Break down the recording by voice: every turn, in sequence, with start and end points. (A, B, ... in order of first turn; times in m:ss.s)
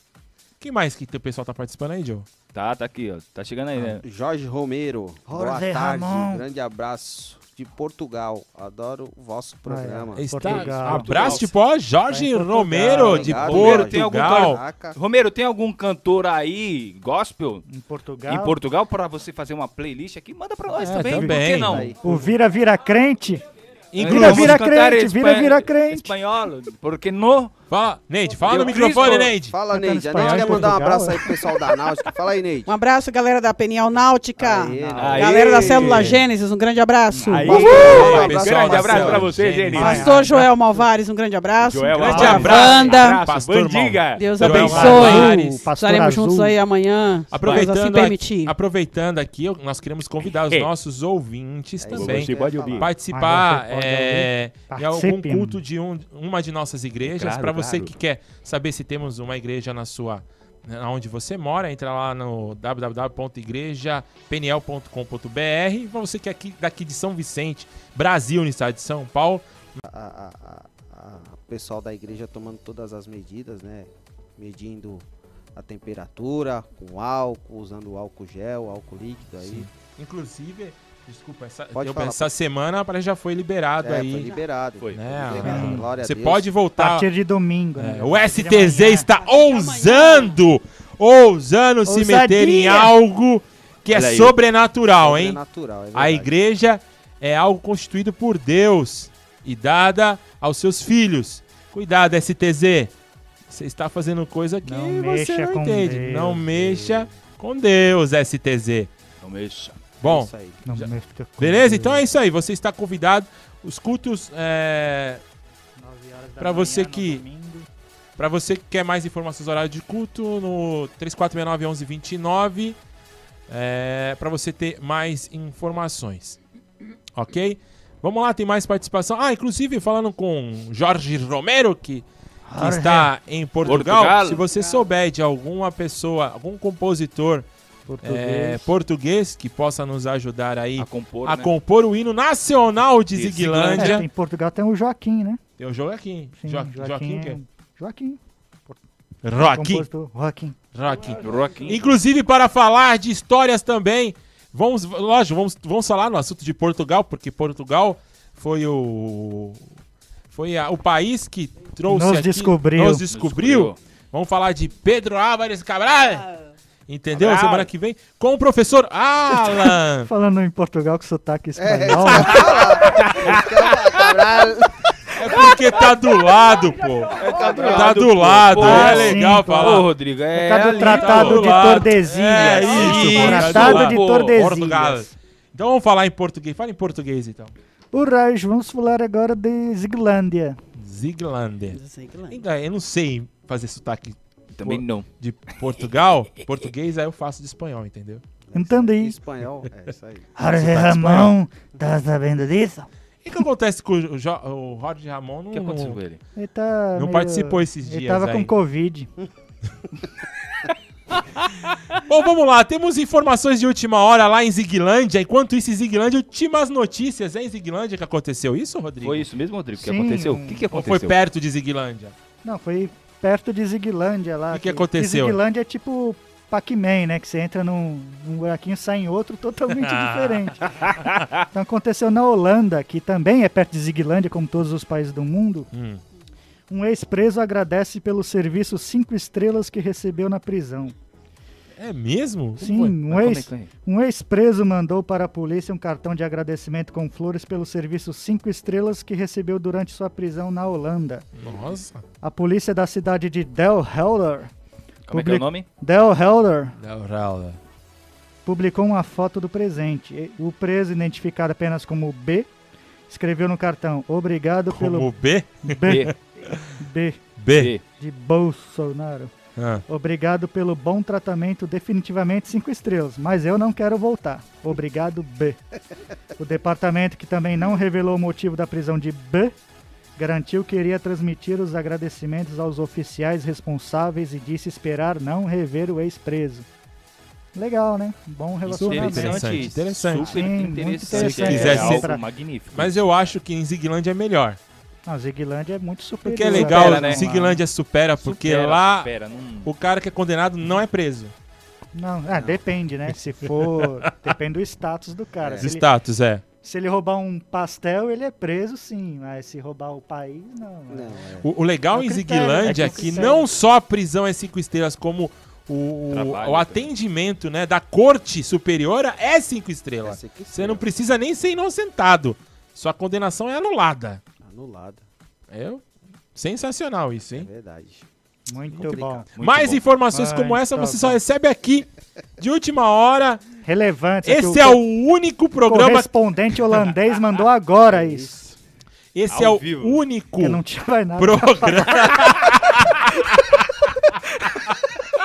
0:00.6-0:02.3 A
0:02.5-0:04.0 B
0:03.8-0:10.7 C
0:05.3-0:06.4 D
0:09.7-0:11.5 D
0:10.2-0:14.6 A
0:10.4-0:11.4 B
0:12.1-0:13.4 D
0:12.9-0:15.0 C
0:13.1-0:17.6 B
0:17.7-0:18.6 D
0:18.2-0:22.2 B
0:20.8-0:21.9 A
0:21.1-0:21.3 D
0:21.6-0:22.0 C
0:22.0-0:23.4 D
0:23.9-0:24.6 A
0:24.0-0:27.5 B
0:24.0-0:26.1 D
0:27.7-0:29.5 A
0:28.5-0:29.3 B
0:29.0-0:32.7 C
0:29.7-0:31.3 D
0:32.7-0:38.3 E
0:34.4-0:35.9 C
0:34.8-0:35.5 D
0:35.0-0:36.2 B
0:35.9-0:36.2 A
0:37.1-0:40.3 B
0:37.4-0:39.4 C
0:37.4-0:40.0 A
0:39.7-0:40.5 D
0:39.8-0:43.2 E
0:41.6-0:45.3 B
0:42.0-0:45.7 A
0:42.0-0:43.0 D
0:44.2-0:48.6 E
0:44.4-0:46.6 D
0:47.3-1:09.8 A
0:51.8-0:52.9 C
0:51.9-0:52.9 B
0:53.1-0:55.6 D
0:57.0-0:57.9 B
1:09.8-1:19.7 C
1:19.4-1:24.3 A
1:21.7-1:22.3 C
1:23.8-1:26.5 C
1:24.8-1:25.6 B
1:24.9-1:27.1 A
1:25.4-1:25.8 D
1:26.8-1:29.1 D
1:27.8-1:35.4 A
1:29.2-1:30.4 E
1:31.9-1:32.9 D
1:33.9-1:34.3 B
1:35.0-1:36.3 C
1:35.9-1:42.9 A
1:43.5-1:48.9 A
1:44.6-1:47.1 D
1:49.2-1:49.8 B
1:50.0-1:50.6 C
1:50.0-1:50.9 A
1:50.6-1:52.0 D
1:51.4-1:55.2 A
1:55.8-1:57.7 D
1:56.4-1:57.2 A
1:58.2-2:02.8 A
2:03.5-2:06.4 A
2:07.1-2:12.0 A
2:12.5-2:13.1 D
2:12.6-2:17.5 A
2:13.6-2:14.6 B
2:17.9-2:18.7 D
2:18.0-2:24.0 A
2:20.8-2:21.5 B
2:23.1-2:24.0 B
2:23.7-2:25.4 D
2:25.6-2:27.4 A
2:26.4-2:28.8 D
2:29.2-2:29.9 A
2:29.4-2:30.6 D
2:30.7-2:39.7 A
2:31.2-2:32.0 B
2:40.3-2:46.3 A
2:41.9-2:43.0 D
2:43.1-2:43.8 B
2:46.9-2:50.1 A
2:47.1-2:47.7 B
2:50.1-2:52.5 D
2:51.6-2:54.7 C
2:53.1-2:53.4 B
2:55.2-2:59.9 A
2:57.2-3:04.4 B
2:57.4-2:57.8 D
2:58.6-3:05.1 D
3:00.7-3:07.5 A
3:07.9-3:10.6 D
3:10.8-3:11.8 A
3:11.7-3:12.4 E
3:12.3-3:18.2 A
3:14.6-3:15.1 B
3:18.4-3:20.6 C
3:18.5-3:19.2 D
3:20.4-3:22.9 D
3:20.6-3:21.3 A
3:23.2-3:26.0 A
3:25.5-3:26.2 B
3:26.4-3:29.1 D
3:27.0-3:28.5 A
3:32.1-3:39.2 A
3:39.0-3:41.2 B
3:39.8-3:40.6 D
3:40.7-3:42.1 A
3:42.4-3:55.7 D
3:44.5-3:45.4 A
3:49.8-3:50.5 A
3:55.7-3:56.0 A
3:56.7-4:01.0 D
4:01.8-4:03.0 A
4:02.6-4:11.3 D
4:03.0-4:03.7 B
4:11.4-4:12.0 A
4:12.2-4:14.5 D
4:15.1-4:15.7 B
4:15.1-4:16.8 D
4:16.8-4:17.6 A
4:18.5-4:22.5 D
4:23.1-4:25.1 D
4:24.7-4:26.6 A
4:25.7-4:27.2 D
4:25.9-4:26.1 B
4:27.4-4:27.7 A
4:27.6-4:27.8 B
4:28.0-4:29.3 D
4:29.6-4:29.8 A
4:29.9-4:35.6 D
4:36.4-4:39.6 D
4:40.2-4:46.7 D
4:47.6-4:49.6 D
4:48.7-4:53.0 B
4:48.7-4:50.5 A
4:50.3-4:52.2 D
4:51.1-4:52.1 A
4:52.7-4:54.6 A
4:55.1-4:57.6 D
4:56.2-4:59.1 A
4:56.5-4:57.3 B
4:58.2-4:59.7 B
4:59.6-5:01.3 A
5:01.9-5:05.8 D
5:02.3-5:02.6 C
5:05.4-5:05.7 C
5:05.6-5:06.4 A
5:06.6-5:11.2 D
5:10.9-5:11.5 C
5:11.4-5:24.2 A
5:11.9-5:13.5 D
5:12.7-5:13.1 B
5:16.1-5:16.9 B
5:20.0-5:20.9 C
5:24.4-5:25.0 C
5:25.5-5:27.5 A
5:27.3-5:28.1 C
5:28.5-5:29.3 D
5:28.8-5:31.9 A
5:28.8-5:29.2 C
5:29.4-5:29.8 B
5:30.1-5:31.2 D
5:32.4-5:33.4 A
5:33.6-5:34.8 D
5:34.2-5:36.1 A
5:35.7-5:38.4 D
5:37.9-5:38.6 C
5:39.2-5:40.6 A
5:39.3-5:40.0 B
5:40.4-5:41.8 D
5:41.2-5:43.1 A